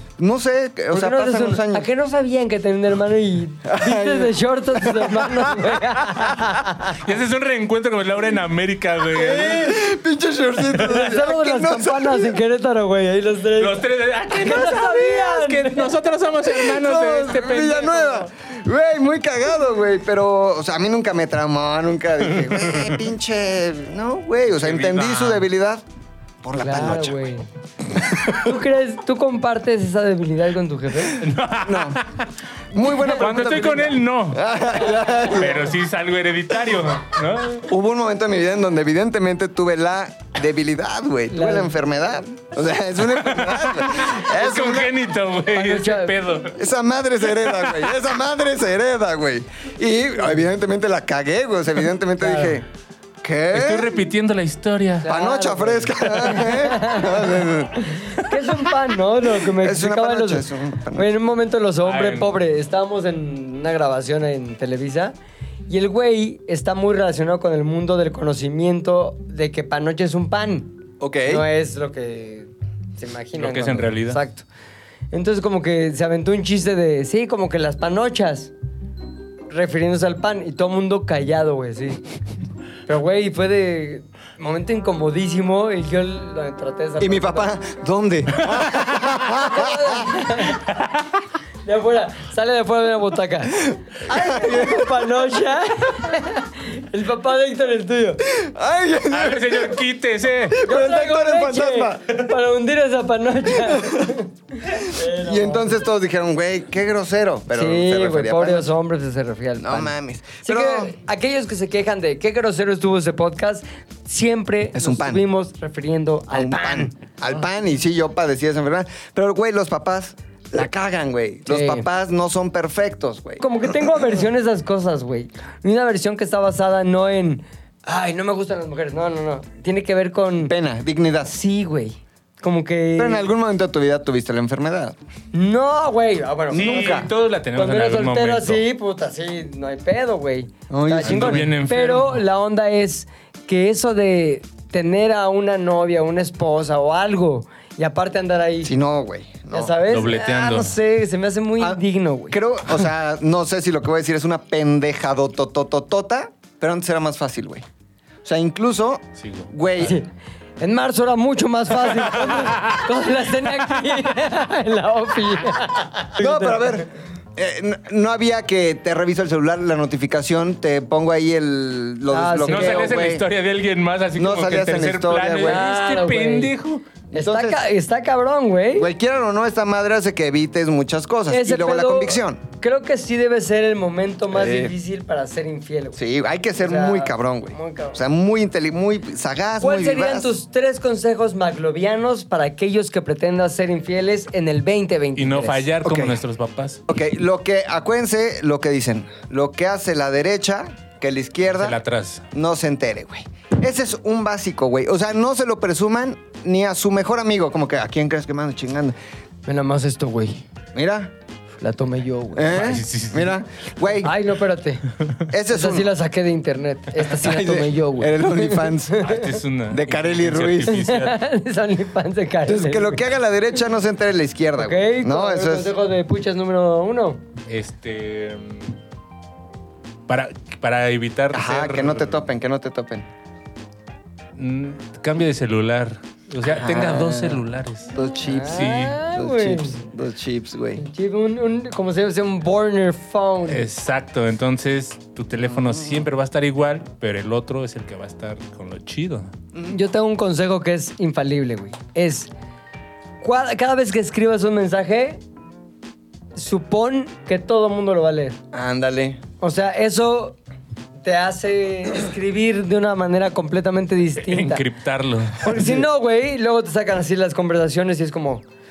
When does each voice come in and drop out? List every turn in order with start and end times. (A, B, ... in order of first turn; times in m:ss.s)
0:00.2-0:01.9 A
0:00.9-0:07.0 B
0:03.7-0:06.5 A
0:06.9-0:09.8 C
0:09.1-0:12.4 A
0:10.6-0:11.1 C
0:11.0-0:13.8 B
0:13.6-0:18.3 C
0:14.3-0:15.9 B
0:16.4-0:25.8 A
0:22.6-0:23.0 C
0:24.5-0:25.4 C
0:26.4-0:27.3 A
0:26.6-0:27.5 B
0:28.0-0:28.4 A
0:28.3-0:31.2 B
0:31.2-0:32.3 C
0:31.6-0:32.0 A
0:32.7-0:35.7 A
0:33.0-0:34.4 C
0:35.2-0:37.7 C
0:37.7-0:44.9 A
0:41.3-0:41.8 B
0:43.1-0:46.6 C
0:45.5-0:46.2 B
0:46.5-0:52.7 A
0:52.2-0:52.6 B
0:53.2-0:54.0 A
0:53.5-0:55.1 C
0:55.0-1:00.4 B
0:55.0-0:57.8 A
0:56.1-0:56.4 C
0:59.4-1:01.2 A
1:01.0-1:05.1 B
1:01.8-1:02.4 C
1:05.7-1:10.7 B
1:11.0-1:11.5 A
1:11.2-1:14.5 B
1:13.4-1:14.2 C
1:15.1-1:18.5 B
1:19.5-1:22.0 B
1:22.9-1:27.5 B
1:27.0-1:30.1 A
1:29.3-1:30.6 B
1:30.7-1:31.2 C
1:31.6-1:38.3 B
1:33.6-1:35.0 A
1:38.3-1:39.8 A
1:39.1-1:40.6 C
1:40.5-1:42.0 A
1:40.6-1:45.8 B
1:43.6-1:44.2 A
1:45.0-1:48.7 A
1:47.5-1:57.0 B
1:49.6-1:50.9 A
1:54.7-1:55.2 A
1:56.3-2:03.9 A
2:01.5-2:01.9 B
2:03.4-2:10.6 B
2:10.4-2:11.4 A
2:11.3-2:13.3 B
2:13.0-2:15.0 A
2:15.3-2:28.7 B
2:16.5-2:17.1 A
2:16.5-2:18.6 C
2:20.7-2:21.5 A
2:21.0-2:22.2 C
2:28.6-2:29.8 A
2:29.5-2:32.4 B
2:29.9-2:30.8 C
2:31.6-2:37.7 A
2:38.2-2:40.0 A
2:39.2-2:39.5 C
2:39.8-2:40.1 B
2:40.6-2:46.8 B
2:41.9-2:42.9 C
2:46.2-2:53.3 A
2:52.1-2:53.0 B
2:52.5-2:56.8 C
2:54.2-2:55.6 A
2:55.4-2:56.5 B
2:57.1-2:58.9 B
2:57.2-2:57.6 A
2:58.8-3:02.4 A
3:01.3-3:06.0 B
3:04.3-3:04.7 A
3:06.0-3:10.3 A
3:06.6-3:08.0 B
3:09.6-3:15.7 B
3:15.2-3:16.8 C
3:15.8-3:16.2 A
3:16.9-3:21.8 A
3:21.5-3:22.2 C
3:22.3-3:29.0 A
3:29.5-3:30.4 B
3:30.8-3:31.1 A
3:31.6-3:32.8 B
3:32.4-3:34.2 A
3:32.5-3:33.4 C
3:34.0-3:34.8 B
3:35.3-3:35.9 A
3:35.5-3:39.4 B
3:37.0-3:40.8 A
3:39.0-3:41.2 C
3:40.7-3:43.1 B
3:42.4-3:45.8 A
3:44.6-3:47.2 B
3:47.5-3:48.8 C
3:50.1-3:52.2 C
3:51.3-3:53.1 A
3:54.4-3:57.9 C
3:56.4-4:00.8 A
3:58.3-3:59.8 B
3:58.5-3:59.0 C
4:00.8-4:03.7 B
4:03.5-4:09.3 C
4:09.7-4:12.3 B
4:13.2-4:15.2 B
4:16.4-4:18.4 B
4:18.5-4:19.2 A
4:19.4-4:20.4 B
4:21.0-4:24.6 B
4:24.2-4:25.8 C
4:25.4-4:28.4 B